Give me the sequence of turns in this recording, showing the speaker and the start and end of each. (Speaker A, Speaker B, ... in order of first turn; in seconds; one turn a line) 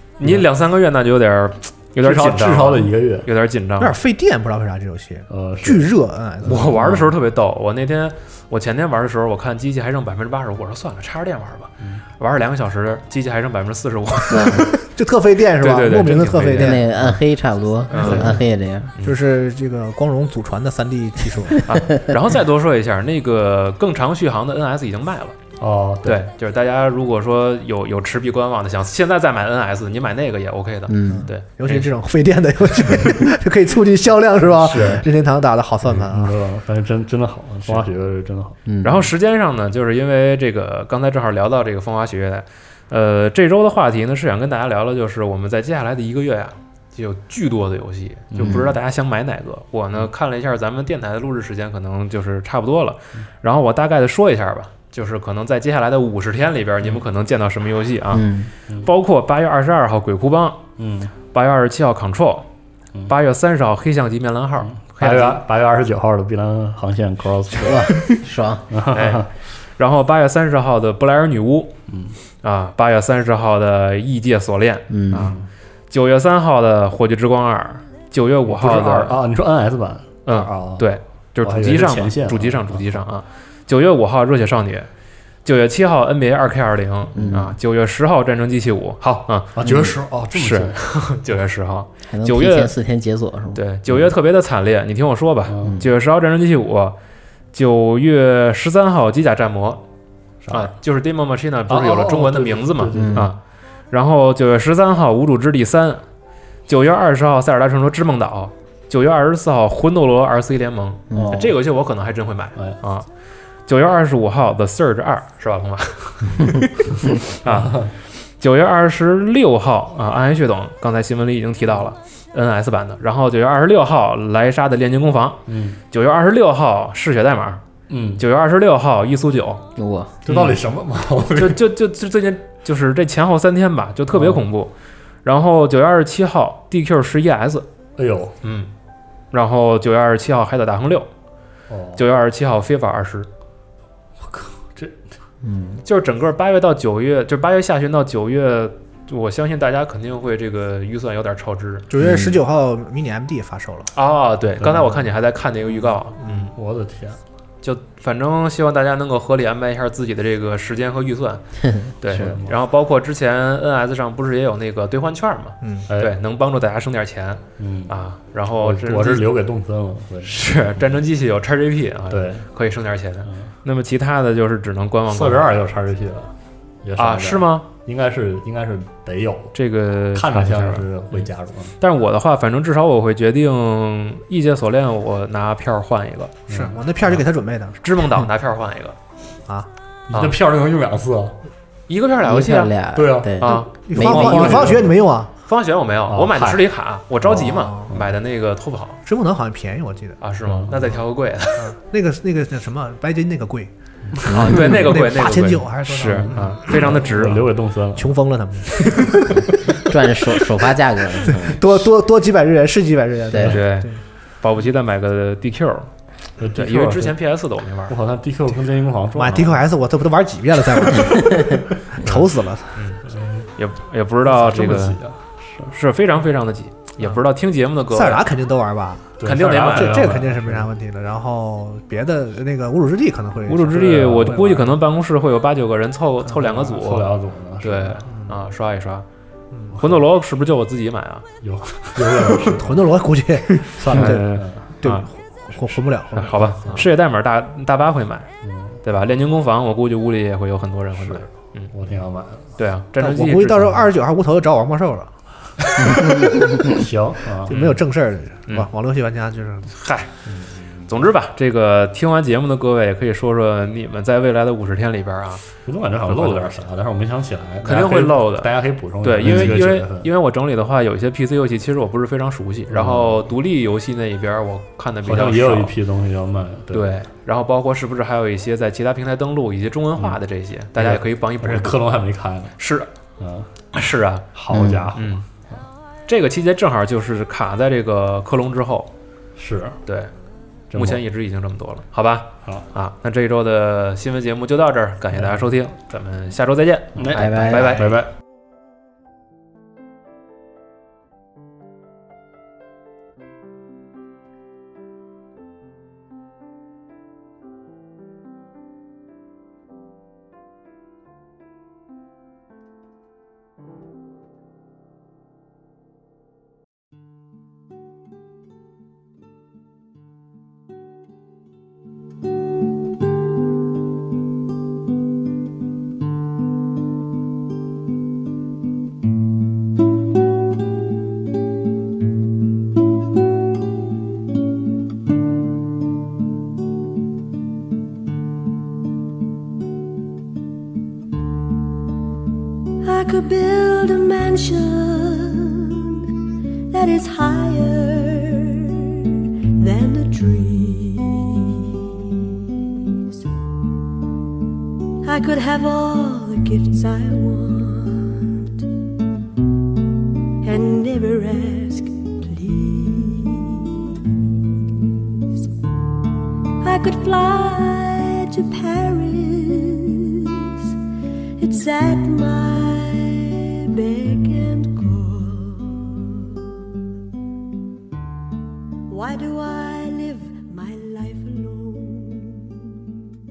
Speaker A: 0.2-3.9
Speaker B: 2.0-3.3
Speaker C: 3.8-6.8
Speaker B: 5.3-5.9
Speaker A: 6.4-14.8
Speaker D: 14.3-14.6
Speaker C: 14.7-16.9
Speaker A: 15.6-17.2
Speaker D: 16.6-18.9
Speaker A: 17.9-18.4
Speaker C: 18.0-18.4
Speaker C: 19.0-21.7
Speaker A: 21.6-25.4
Speaker B: 25.6-26.2
Speaker A: 26.0-31.9
Speaker D: 30.9-31.3
Speaker C: 31.1-36.3
Speaker B: 34.5-35.0
Speaker B: 35.8-38.6
Speaker D: 38.6-39.1
Speaker A: 38.8-58.2
Speaker B: 48.3-48.7
Speaker D: 48.4-48.7
Speaker D: 58.1-58.5
Speaker A: 58.8-60.6
Speaker B: 60.8-61.1
Speaker A: 61.3-62.5
Speaker A: 63.1-65.4
Speaker B: 64.6-68.1
Speaker D: 67.6-68.7
Speaker B: 68.7-69.3
Speaker A: 68.9-71.7
Speaker B: 71.9-72.2
Speaker A: 72.4-75.4
Speaker D: 74.9-75.3
Speaker B: 75.2-75.5
Speaker A: 75.9-79.2
Speaker B: 78.5-80.9
Speaker A: 80.2-84.9
Speaker B: 81.4-82.9
Speaker A: 85.4-89.6
Speaker D: 87.1-87.5
Speaker B: 89.5-90.8
Speaker D: 89.6-89.9
Speaker A: 90.3-92.7
Speaker D: 92.1-93.6
Speaker A: 93.5-97.0
Speaker B: 95.5-95.8
Speaker A: 97.5-99.8
Speaker B: 100.4-100.7
Speaker A: 100.5-103.4
Speaker B: 101.7-103.3
Speaker D: 102.9-103.3
Speaker A: 103.9-106.0
Speaker A: 106.7-113.1
Speaker D: 111.1-111.5
Speaker B: 111.1-111.5
Speaker A: 113.7-127.6
Speaker B: 117.4-117.9
Speaker B: 125.5-125.8
Speaker B: 127.9-128.2
Speaker A: 128.2-129.6
Speaker D: 129.8-130.2
Speaker B: 130.2-131.6
Speaker A: 130.3-130.6
Speaker A: 131.3-134.7
Speaker B: 134.1-134.4
Speaker A: 135.2-137.7
Speaker B: 138.0-138.3
Speaker A: 138.4-138.7
Speaker A: 139.3-141.1
Speaker B: 141.7-142.0
Speaker A: 141.9-143.3
Speaker B: 144.2-145.0
Speaker D: 145.4-145.8
Speaker A: 145.8-151.8
Speaker C: 151.9-153.9
Speaker D: 152.0-152.4
Speaker A: 153.9-156.5
Speaker B: 154.6-155.0
Speaker C: 156.2-156.5
Speaker B: 156.5-157.2
Speaker A: 157.6-161.4
Speaker D: 161.6-161.9
Speaker A: 162.0-169.3
Speaker B: 162.1-162.6
Speaker C: 165.6-165.9
Speaker B: 165.9-166.1
Speaker B: 167.6-167.9
Speaker B: 168.6-170.4
Speaker A: 170.2-175.5
Speaker B: 172.1-172.4
Speaker B: 175.1-179.5
Speaker A: 177.0-177.7
Speaker A: 179.5-181.3
Speaker B: 180.1-181.7
Speaker A: 181.8-186.4
Speaker B: 186.5-187.2
Speaker C: 186.5-188.2
Speaker A: 187.8-189.0
Speaker B: 190.1-191.3
Speaker A: 191.9-192.7
Speaker D: 192.2-194.8
Speaker B: 192.9-194.9
Speaker A: 193.4-194.7
Speaker C: 193.8-195.3
Speaker A: 195.4-199.0
Speaker B: 196.1-196.6
Speaker B: 197.2-198.1
Speaker C: 197.3-197.9
Speaker C: 199.1-200.2
Speaker A: 200.2-201.7
Speaker B: 200.4-200.7
Speaker C: 201.6-203.7
Speaker A: 204.2-207.4
Speaker D: 204.3-204.7
Speaker C: 204.4-207.0
Speaker B: 206.1-208.2
Speaker C: 207.9-210.7
Speaker D: 209.8-211.6
Speaker C: 211.3-214.0
Speaker A: 213.4-213.9
Speaker A: 214.4-215.9
Speaker B: 216.4-217.2
Speaker A: 216.5-217.9
Speaker B: 217.9-219.6
Speaker C: 219.2-222.7
Speaker B: 220.8-222.1
Speaker A: 222.7-223.0
Speaker B: 223.1-223.5
Speaker A: 223.6-225.0
Speaker B: 224.2-225.7
Speaker A: 225.7-228.2
Speaker C: 227.9-234.6
Speaker B: 229.2-230.7
Speaker A: 229.2-230.2
Speaker A: 233.5-237.1
Speaker B: 233.7-234.7
Speaker B: 236.3-238.0
Speaker A: 237.6-239.1
Speaker A: 239.8-241.2
Speaker B: 241.4-242.9
Speaker C: 242.4-244.3
Speaker A: 243.7-245.1
Speaker B: 243.8-244.8
Speaker C: 244.8-246.7
Speaker A: 246.2-248.3
Speaker B: 246.2-246.8
Speaker B: 248.4-248.8
Speaker A: 248.8-251.7
Speaker B: 251.0-252.6
Speaker A: 252.6-253.7
Speaker C: 253.0-255.1
Speaker C: 255.8-256.3
Speaker B: 256.6-257.6
Speaker C: 257.5-259.7
Speaker A: 257.5-257.8
Speaker A: 259.7-260.1
Speaker B: 260.3-260.9
Speaker A: 260.8-265.4
Speaker B: 265.6-270.1
Speaker A: 266.0-266.5
Speaker A: 267.6-268.5
Speaker A: 269.0-275.7
Speaker B: 272.7-273.2
Speaker B: 275.0-276.9
Speaker A: 276.7-281.8
Speaker B: 280.8-282.6
Speaker A: 282.6-282.9
Speaker B: 283.2-283.5
Speaker A: 283.7-284.3
Speaker B: 284.3-285.6
Speaker D: 284.5-284.9
Speaker A: 284.9-285.2
Speaker A: 286.1-288.9
Speaker B: 289.4-289.8
Speaker A: 289.9-290.1
Speaker B: 290.7-291.0
Speaker A: 290.7-298.1
Speaker B: 296.9-298.1
Speaker D: 297.1-297.9
Speaker E: 342.8-346.0
Speaker E: 346.7-352.2
Speaker E: 355.0-358.6
Speaker E: 360.4-364.6
Speaker E: 366.6-370.5
Speaker E: 371.4-376.4
Speaker E: 378.9-382.7